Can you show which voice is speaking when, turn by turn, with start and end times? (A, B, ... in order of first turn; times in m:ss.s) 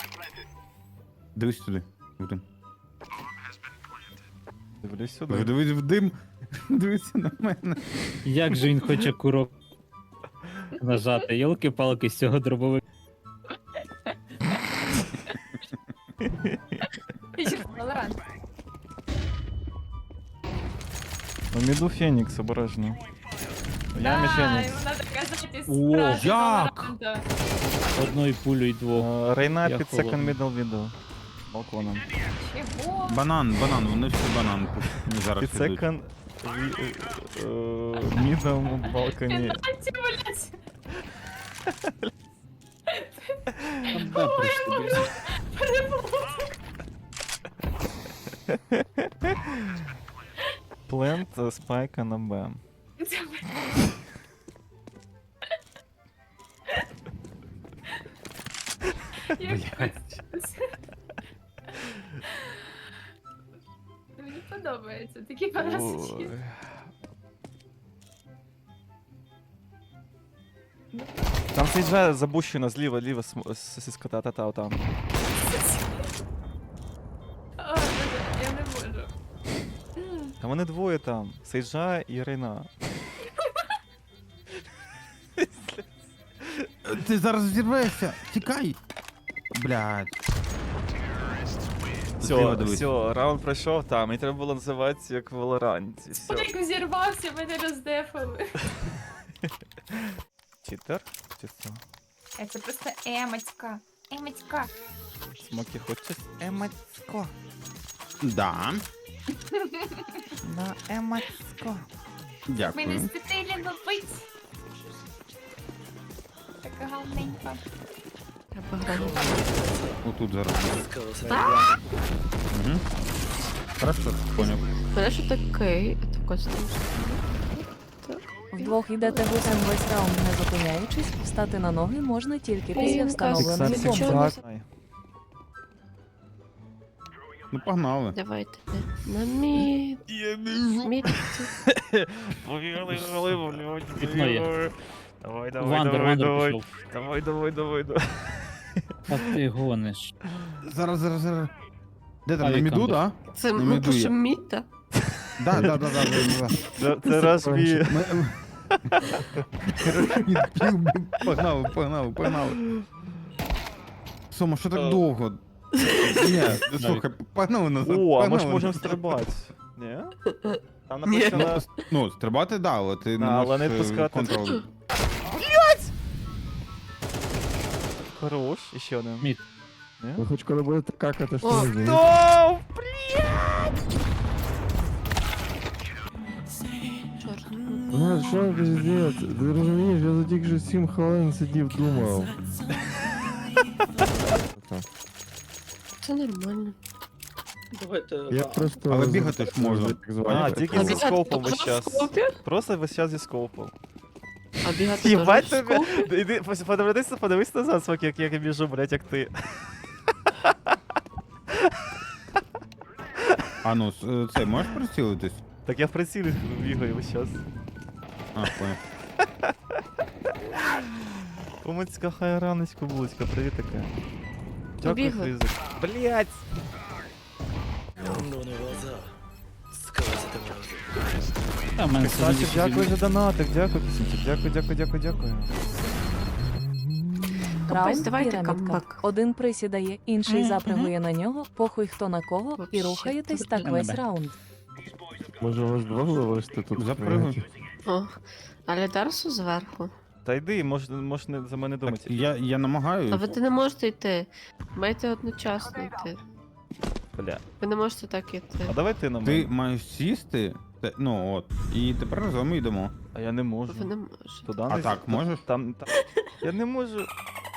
0:01.3-0:02.4 A
0:04.8-0:05.5 B
0:05.3-0:08.2 A
0:08.2-0:09.5 C
0:10.8-0:12.8 C
0:14.0-0:15.4 D
0:16.2-0:16.8 B
0:17.3-0:18.2 D
0:21.5-0:23.0 B
0:23.9-0:24.8 B
0:23.9-0:27.2 D
0:25.7-0:26.3 C
0:26.2-0:27.0 A
0:28.0-0:30.4 C
0:28.9-0:30.9 B
0:31.5-0:32.0 B
0:32.4-0:33.2 D
0:33.1-0:35.8 A
0:35.4-0:39.6 B
0:39.1-0:40.6 D
0:41.7-0:42.1 B
0:42.9-0:43.4 D
0:43.9-0:45.2 C
0:43.9-0:46.5 D
0:48.5-0:49.5 B
0:50.9-0:52.6 B
0:53.0-0:54.0 D
0:59.2-1:00.7 D
0:59.4-1:00.0 A
1:04.2-1:06.3 D
1:05.6-1:06.8 B
1:10.9-1:12.0 D
1:11.5-1:14.8 B
1:15.4-1:16.0 D
1:17.6-1:19.1 D
1:20.0-1:20.3 D
1:20.4-1:22.7 B
1:25.4-1:26.7 B
1:26.8-1:28.8 A
1:29.5-1:30.1 A
1:32.2-1:32.9 A
1:32.2-1:36.5 B
1:36.2-1:38.5 D
1:40.6-1:41.8 B
1:42.4-1:44.7 D
1:45.4-1:47.3 B
1:48.2-1:48.8 A
1:49.5-1:50.2 D
1:50.4-1:51.9 B
1:52.5-1:53.1 A
1:52.7-1:54.3 D
1:56.6-1:57.6 D
1:58.5-1:59.5 E
2:00.0-2:00.9 A
2:01.2-2:01.7 B
2:01.3-2:01.8 E
2:02.5-2:02.8 A
2:03.8-2:04.7 A
2:04.4-2:09.6 E
2:08.5-2:14.2 F
2:12.7-2:14.4 E
2:13.4-2:14.6 B
2:17.5-2:18.2 A
2:18.1-2:20.0 E
2:20.5-2:29.1 B
2:20.8-2:21.5 E
2:23.9-2:24.5 C
2:25.6-2:26.6 C
2:29.1-2:30.1 C
2:30.6-2:31.5 A
2:32.2-2:34.2 A
2:32.4-2:33.0 C
2:33.3-2:34.7 E
2:35.4-2:36.6 A
2:35.5-2:36.1 B
2:36.7-2:38.1 B
2:37.2-2:37.7 G
2:37.8-2:38.4 A
2:38.9-2:39.3 B
2:39.7-2:42.6 A
2:44.3-2:45.4 A
2:45.9-2:46.2 E
2:46.0-2:49.0 A
2:46.5-2:47.0 C
2:47.8-2:50.1 B
2:50.3-2:51.4 E
2:50.9-2:51.6 B
2:51.2-2:54.6 A
2:53.2-2:54.5 B
2:55.2-2:55.9 B
2:58.2-2:59.3 B
3:00.0-3:00.2 B
3:00.2-3:02.0 G
3:01.4-3:01.7 E
3:01.7-3:03.7 B
3:07.1-3:07.8 E
3:07.9-3:12.3 G
3:14.1-3:14.8 G
3:16.0-3:16.8 E
3:18.3-3:21.2 G
3:18.9-3:20.4 A
3:20.2-3:23.7 B
3:20.8-3:22.4 E
3:24.6-3:26.1 E
3:24.9-3:29.4 B
3:30.3-3:30.5 B
3:33.6-3:35.4 A
3:35.6-3:37.4 B
3:38.3-3:38.8 A
3:40.6-3:40.9 B
3:41.6-3:43.9 B
3:44.8-3:46.4 B
3:44.8-3:45.3 E
3:51.8-3:53.0 C
3:52.0-3:55.5 B
3:55.6-3:56.3 E
3:57.7-3:59.1 E
3:57.7-4:04.3 F
4:00.2-4:00.9 C
4:02.5-4:03.6 E
4:03.5-4:04.1 C
4:05.3-4:07.4 G
4:06.7-4:07.4 A
4:07.8-4:09.9 E
4:10.2-4:12.2 B
4:11.8-4:13.3 A
4:13.1-4:16.2 E
4:17.2-4:17.4 B
4:17.6-4:18.8 E
4:18.6-4:19.5 B
4:19.2-4:22.9 A
4:23.1-4:27.1 B
4:23.7-4:24.5 E
4:24.7-4:25.4 A